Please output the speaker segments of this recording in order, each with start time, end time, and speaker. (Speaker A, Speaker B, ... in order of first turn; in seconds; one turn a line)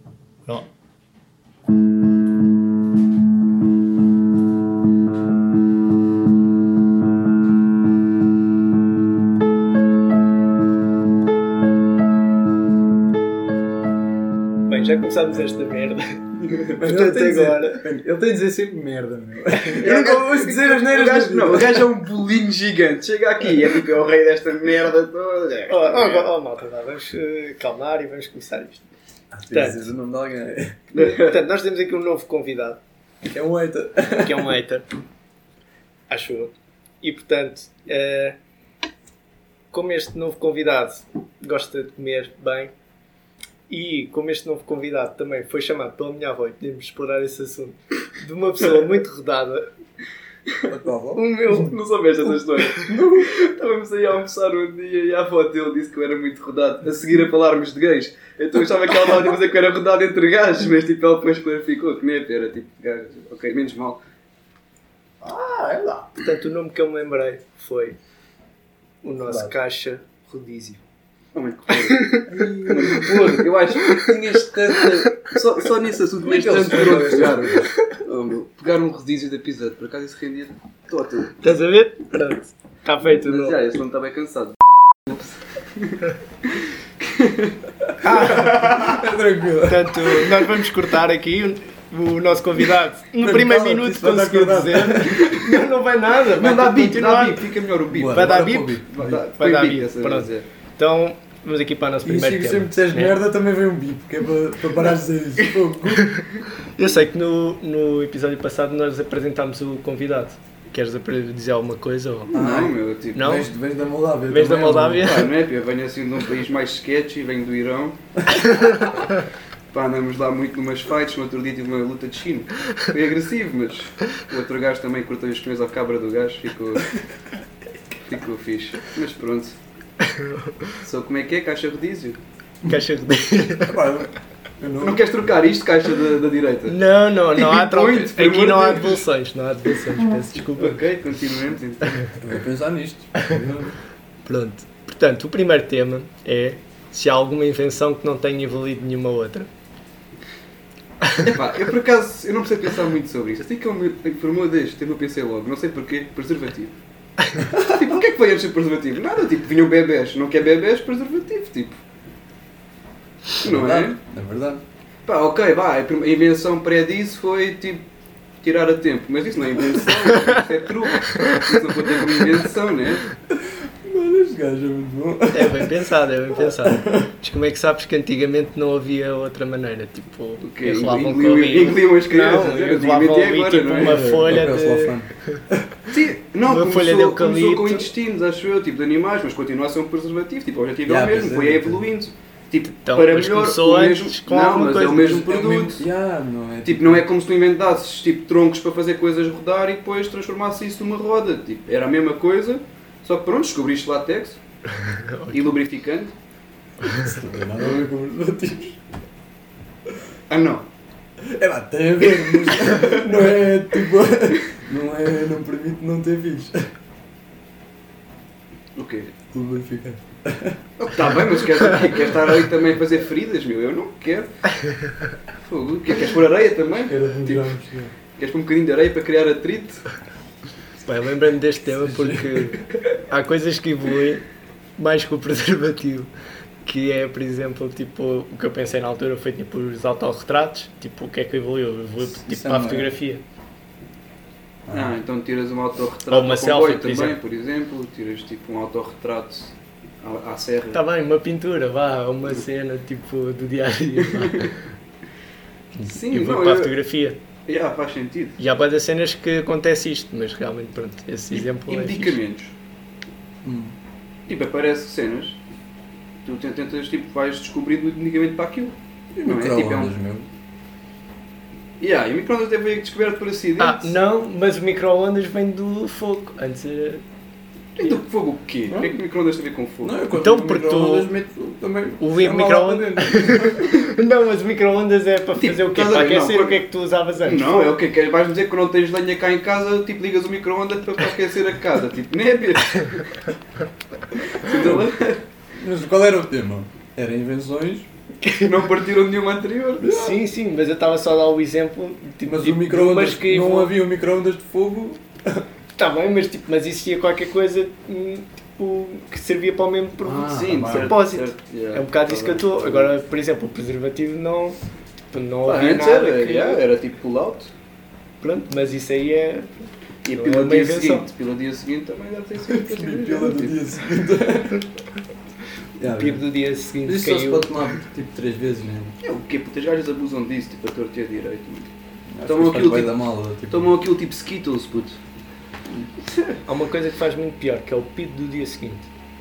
Speaker A: 14.7-16.2
Speaker B: 16.7-21.9
Speaker A: 16.7-17.8
Speaker C: 19.7-26.3
Speaker A: 25.7-28.8
Speaker B: 29.3-30.8
Speaker A: 29.5-29.8
Speaker C: 30.9-31.4
Speaker A: 30.9-32.8
Speaker B: 33.2-34.5
Speaker A: 34.2-34.9
Speaker A: 36.1-38.4
Speaker A: 39.7-42.7
Speaker A: 43.7-49.7
Speaker B: 50.7-51.2
Speaker A: 51.1-51.8
Speaker C: 51.5-64.0
Speaker B: 52.9-53.3
Speaker B: 65.2-66.1
Speaker A: 66.2-68.0
Speaker A: 69.0-70.8
Speaker B: 69.3-69.5
Speaker C: 71.3-81.3
Speaker A: 71.7-74.1
Speaker B: 72.3-73.3
Speaker A: 74.8-75.4
Speaker B: 76.2-77.7
Speaker A: 81.4-83.6
Speaker C: 83.1-87.6
Speaker A: 88.0-88.9
Speaker B: 88.1-90.7
Speaker C: 88.3-89.0
Speaker A: 89.6-97.5
Speaker B: 93.2-95.4
Speaker C: 96.3-100.5
Speaker B: 97.9-99.2
Speaker A: 98.1-98.8
Speaker A: 99.4-103.2
Speaker B: 102.0-106.2
Speaker A: 106.0-112.3
Speaker C: 112.3-113.4
Speaker B: 112.3-115.2
Speaker A: 113.1-113.5
Speaker A: 114.3-115.4
Speaker C: 115.0-119.0
Speaker C: 119.7-126.9
Speaker C: 128.1-129.5
Speaker A: 130.0-130.7
Speaker C: 130.8-132.2
Speaker A: 132.7-133.8
Speaker B: 133.6-135.0
Speaker C: 134.8-136.8
Speaker A: 136.7-140.8
Speaker C: 137.3-139.0
Speaker C: 140.6-142.2
Speaker B: 142.2-143.8
Speaker A: 144.2-149.5
Speaker C: 151.2-156.7
Speaker C: 157.4-161.8
Speaker C: 163.4-163.9
Speaker B: 163.4-164.6
Speaker C: 165.1-167.8
Speaker C: 168.4-173.0
Speaker B: 173.3-175.8
Speaker A: 175.3-185.4
Speaker B: 176.4-177.1
Speaker C: 180.4-184.1
Speaker B: 183.8-185.7
Speaker C: 185.9-195.8
Speaker A: 186.4-187.9
Speaker B: 190.8-191.8
Speaker A: 192.7-195.5
Speaker B: 195.2-197.1
Speaker C: 196.6-204.4
Speaker A: 204.8-205.5
Speaker C: 205.3-206.1
Speaker A: 206.8-207.1
Speaker B: 206.8-208.8
Speaker C: 210.3-210.7
Speaker B: 211.2-216.6
Speaker C: 212.6-213.2
Speaker C: 218.8-219.1
Speaker B: 219.3-221.4
Speaker C: 220.8-224.3
Speaker C: 225.4-227.5
Speaker B: 226.7-227.9
Speaker C: 228.2-229.8
Speaker A: 230.8-234.2
Speaker B: 231.8-232.7
Speaker A: 234.8-236.1
Speaker A: 236.7-243.2
Speaker B: 242.1-242.9
Speaker B: 244.7-245.0
Speaker C: 244.7-250.8
Speaker A: 246.1-247.2
Speaker A: 250.7-254.5
Speaker C: 254.1-254.5
Speaker C: 255.8-256.7
Speaker A: 255.9-257.2
Speaker C: 257.4-258.4
Speaker A: 258.4-262.2
Speaker C: 261.3-262.5
Speaker B: 263.4-263.7
Speaker C: 264.3-265.4
Speaker C: 266.2-269.9
Speaker B: 269.2-270.3
Speaker C: 271.8-273.9
Speaker A: 273.6-277.0
Speaker C: 277.8-280.0
Speaker B: 278.7-279.0
Speaker B: 279.8-283.7
Speaker A: 280.1-281.1
Speaker A: 282.0-287.7
Speaker C: 285.4-286.6
Speaker C: 287.2-293.2
Speaker C: 294.2-295.2
Speaker B: 294.4-294.9
Speaker B: 295.5-297.9
Speaker A: 298.2-298.6
Speaker C: 298.4-300.0
Speaker B: 299.8-300.1
Speaker A: 299.8-303.7
Speaker B: 302.2-305.4
Speaker A: 305.8-314.6
Speaker B: 310.0-310.9
Speaker C: 310.2-312.9
Speaker A: 315.1-316.6
Speaker C: 315.4-317.5
Speaker A: 318.2-319.5
Speaker C: 320.0-323.6
Speaker A: 320.1-321.1
Speaker B: 322.4-324.7
Speaker B: 325.8-326.2
Speaker A: 325.9-327.5
Speaker B: 326.8-328.9
Speaker C: 329.0-331.7
Speaker B: 332.1-333.8
Speaker C: 332.2-335.0
Speaker C: 335.7-336.2
Speaker A: 336.4-338.9